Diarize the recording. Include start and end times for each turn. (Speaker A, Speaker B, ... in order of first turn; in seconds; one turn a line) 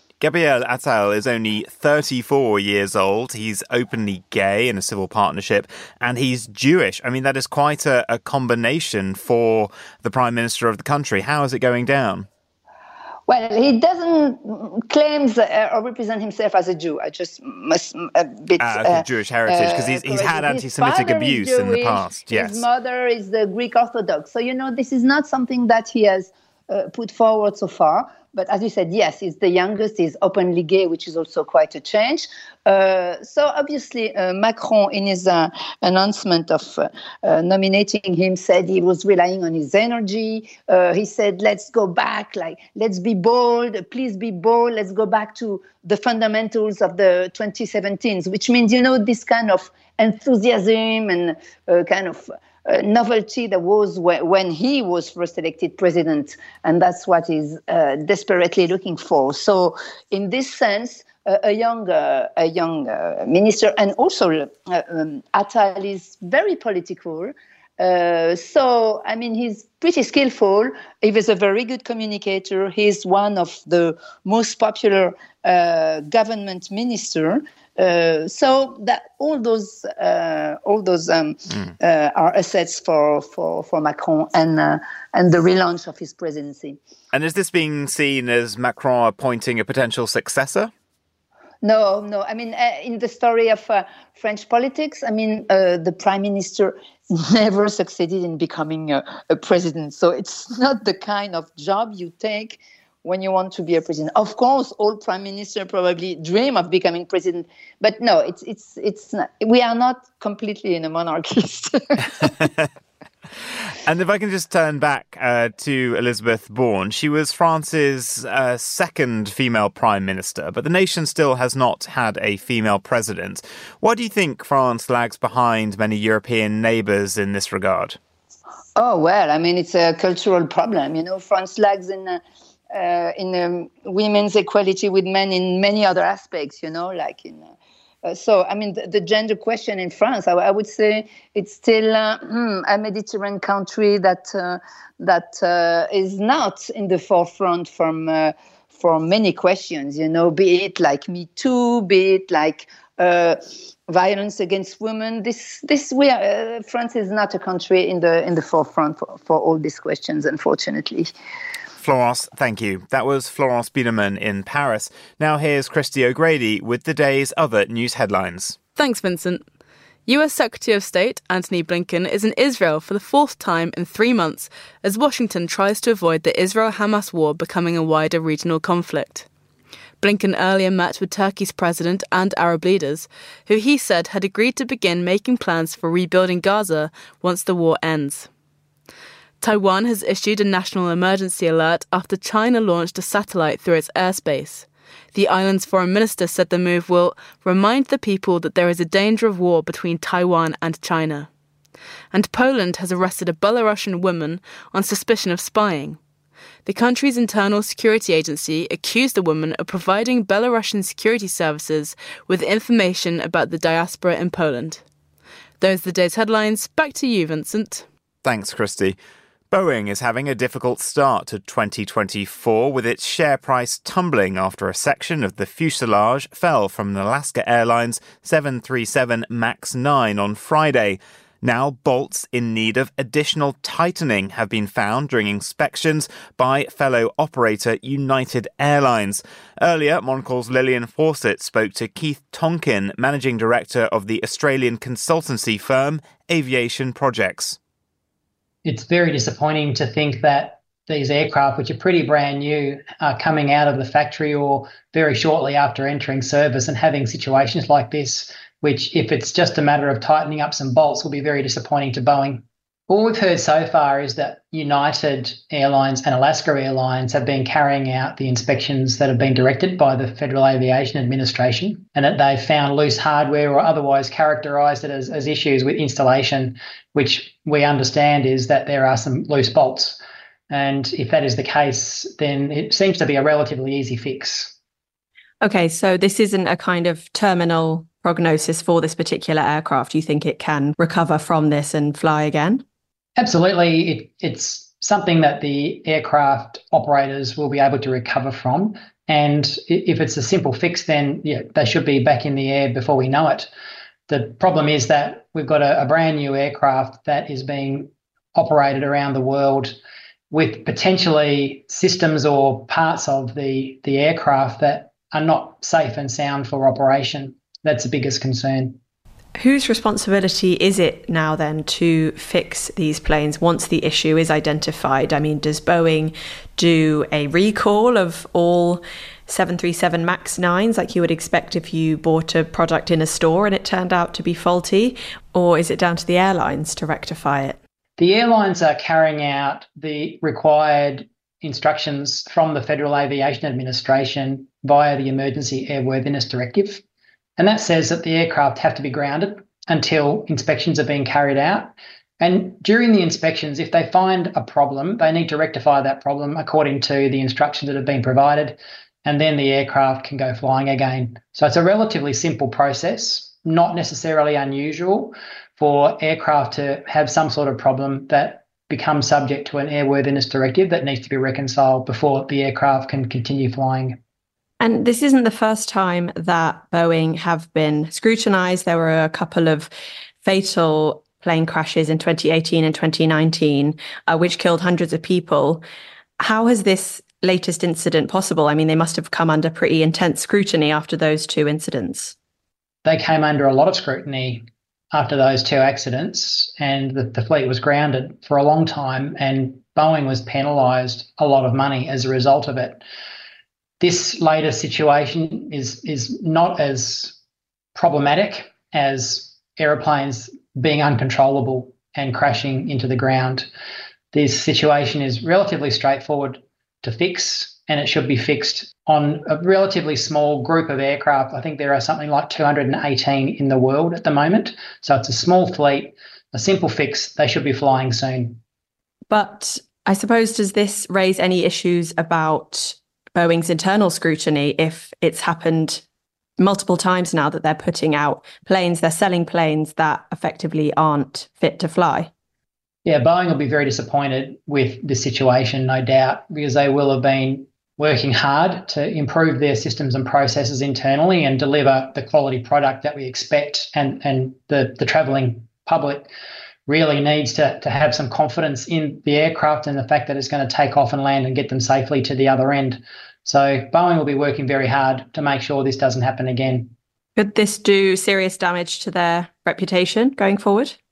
Speaker A: 0.2-12.3
Speaker B: 13.3-86.8
Speaker A: 18.6-22.6
Speaker A: 87.1-90.7
Speaker B: 91.6-112.3
Speaker A: 112.4-112.7
Speaker A: 113.7-128.0
Speaker B: 128.8-137.5
Speaker B: 138.0-161.1
Speaker A: 161.8-168.6
Speaker C: 168.8-169.4
Speaker C: 170.1-179.3
Speaker C: 180.0-188.3
Speaker C: 189.4-201.3
Speaker C: 202.1-206.0
Speaker C: 206.6-214.8
Speaker C: 215.6-217.8
Speaker A: 218.2-219.0
Speaker A: 219.5-247.6
Speaker D: 248.6-284.5
Speaker E: 285.4-292.6
Speaker D: 293.2-303.5
Speaker D: 304.1-309.8
Speaker D: 310.3-318.8
Speaker E: 319.4-337.6
Speaker D: 338.0-346.8
Speaker D: 347.4-374.0
Speaker E: 374.6-379.7
Speaker E: 380.2-385.6
Speaker E: 386.2-392.1
Speaker D: 392.8-402.8
Speaker D: 403.8-407.1
Speaker D: 407.7-413.5
Speaker D: 414.1-428.4
Speaker E: 429.1-435.8
Speaker E: 436.4-442.1
Speaker D: 442.8-456.1
Speaker D: 456.7-466.7
Speaker E: 467.1-470.8